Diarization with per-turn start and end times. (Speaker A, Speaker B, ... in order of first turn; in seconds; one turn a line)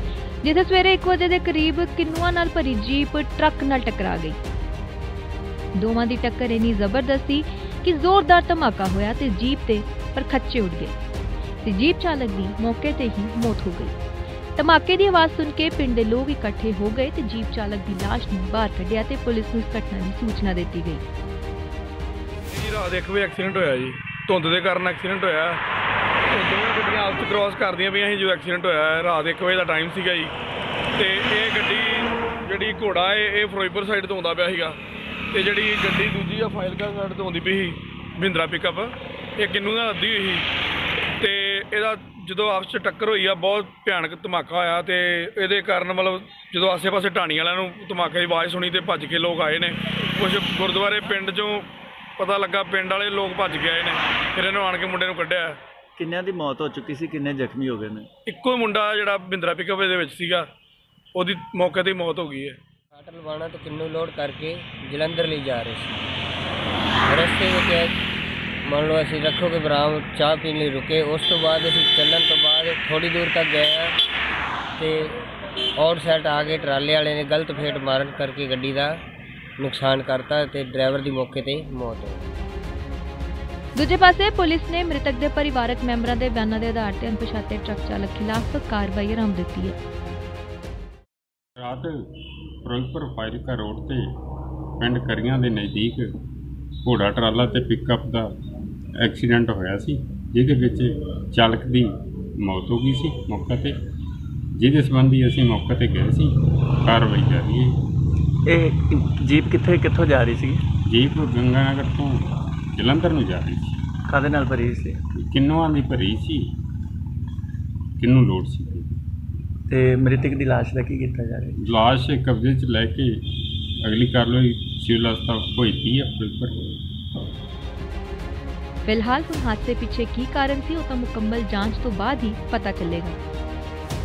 Speaker A: 0.4-4.4
Speaker A: 5.8-10.9
Speaker A: 11.6-14.0
Speaker A: 14.6-21.0
Speaker B: 22.5-25.6
Speaker B: 26.3-30.3
Speaker B: 31.0-34.8
Speaker B: 35.3-40.5
Speaker B: 41.2-51.6
Speaker B: 52.2-55.6
Speaker C: 56.0-58.1
Speaker B: 58.3-60.5
Speaker B: 61.2-62.6
Speaker D: 63.0-65.9
Speaker D: 67.1-67.9
Speaker D: 68.7-73.9
Speaker D: 75.8-78.9
Speaker D: 79.6-82.2
Speaker A: 83.8-89.8
Speaker E: 91.6-92.0
Speaker E: 92.7-94.2
Speaker E: 94.8-96.1
Speaker E: 96.8-98.3
Speaker E: 99.0-103.8
Speaker E: 104.6-106.3
Speaker E: 106.8-107.8
Speaker C: 108.5-110.6
Speaker E: 110.9-113.8
Speaker C: 114.1-115.0
Speaker E: 115.2-116.5
Speaker E: 118.0-119.0
Speaker C: 119.7-121.6
Speaker E: 121.6-123.1
Speaker E: 123.8-126.6
Speaker A: 128.8-133.2